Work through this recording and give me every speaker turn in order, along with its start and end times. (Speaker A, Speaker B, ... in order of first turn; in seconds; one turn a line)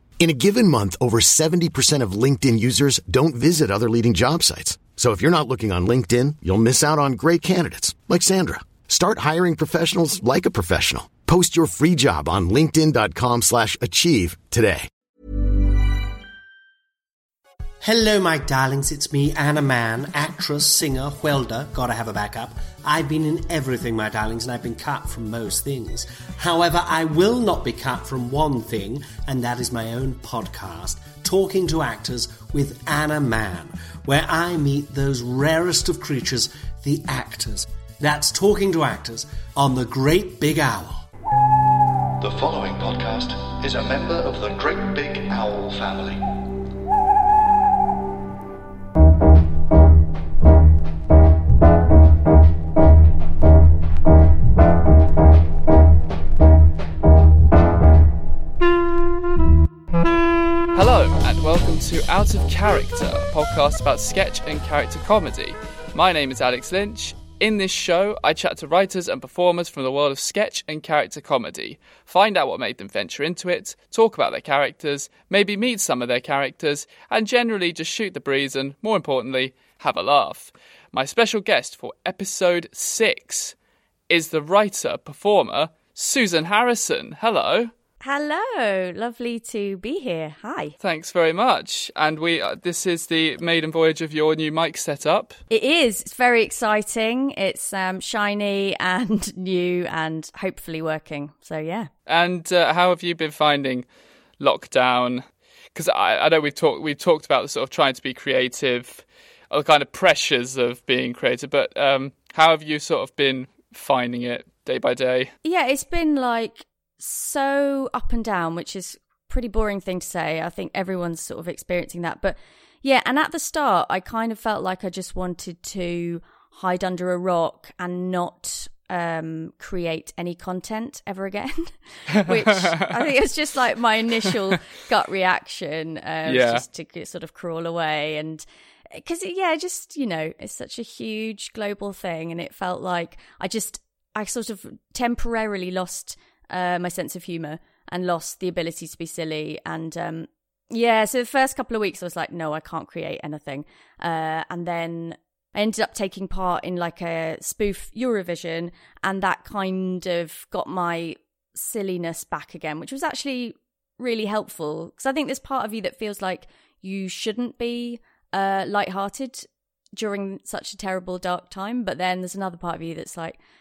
Speaker A: 0.2-14.9
Speaker B: 17.8-41.0
Speaker C: 42.2-46.2
Speaker D: 60.7-83.5
Speaker D: 84.1-87.7
Speaker E: 88.0-90.8
Speaker D: 90.8-95.4
Speaker E: 95.5-101.9
Speaker D: 102.1-103.9
Speaker D: 104.4-105.2
Speaker D: 105.8-115.3
Speaker E: 115.4-173.4
Speaker D: 132.2-132.9
Speaker D: 136.3-136.6